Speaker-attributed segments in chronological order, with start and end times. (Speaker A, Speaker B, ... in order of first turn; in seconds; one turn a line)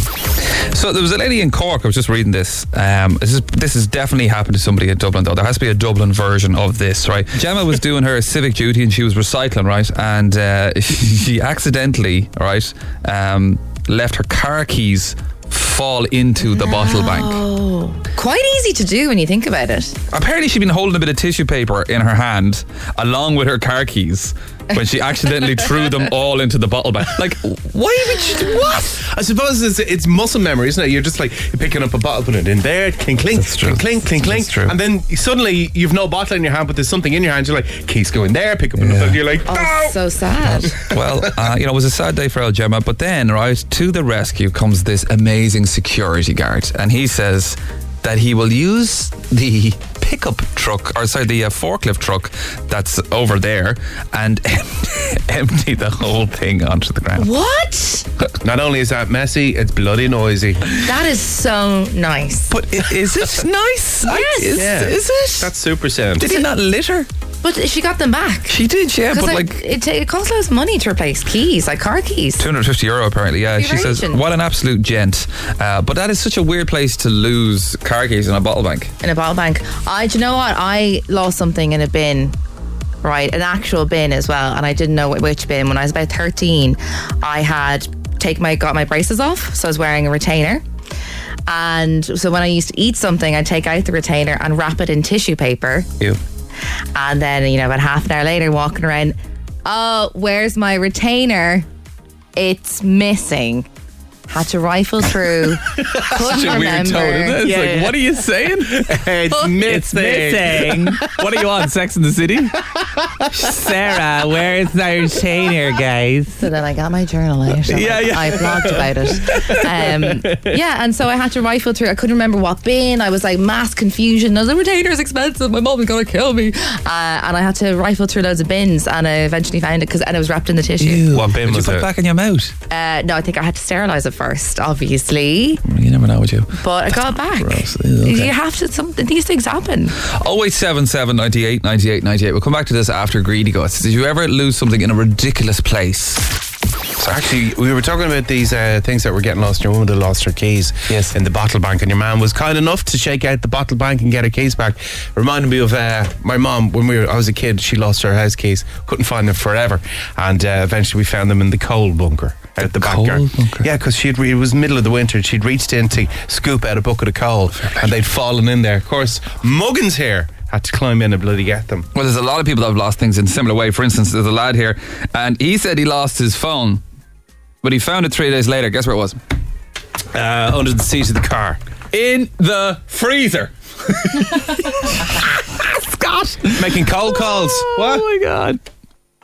Speaker A: 0.7-17.4
Speaker B: 16.4-20.0
Speaker A: 20.1-29.0
Speaker C: 29.0-40.0
Speaker A: 33.3-34.8
Speaker A: 38.8-39.2
Speaker B: 39.5-40.7
Speaker A: 40.8-57.3
Speaker B: 57.2-58.0
Speaker C: 58.4-60.6
Speaker B: 60.8-62.5
Speaker A: 62.5-65.5
Speaker B: 64.1-64.6
Speaker C: 64.6-66.3
Speaker A: 66.2-67.1
Speaker B: 67.4-68.6
Speaker A: 68.5-69.6
Speaker B: 69.1-72.4
Speaker A: 72.4-78.9
Speaker B: 73.5-74.2
Speaker B: 79.0-82.3
Speaker B: 83.0-90.6
Speaker B: 91.5-95.9
Speaker B: 97.0-101.7
Speaker B: 102.4-103.7
Speaker B: 104.3-107.5
Speaker A: 105.9-112.6
Speaker C: 107.4-108.0
Speaker C: 108.8-111.0
Speaker A: 113.3-116.4
Speaker B: 116.4-131.0
Speaker A: 117.7-120.1
Speaker A: 130.8-132.5
Speaker C: 131.1-131.9
Speaker B: 132.7-135.6
Speaker A: 135.7-138.3
Speaker B: 136.6-139.9
Speaker A: 140.2-146.2
Speaker C: 147.1-171.9
Speaker A: 150.9-151.1
Speaker A: 162.6-163.7
Speaker A: 167.6-167.9
Speaker A: 171.9-176.8
Speaker A: 177.6-179.2
Speaker C: 180.1-181.6
Speaker A: 181.9-188.6
Speaker C: 186.6-188.0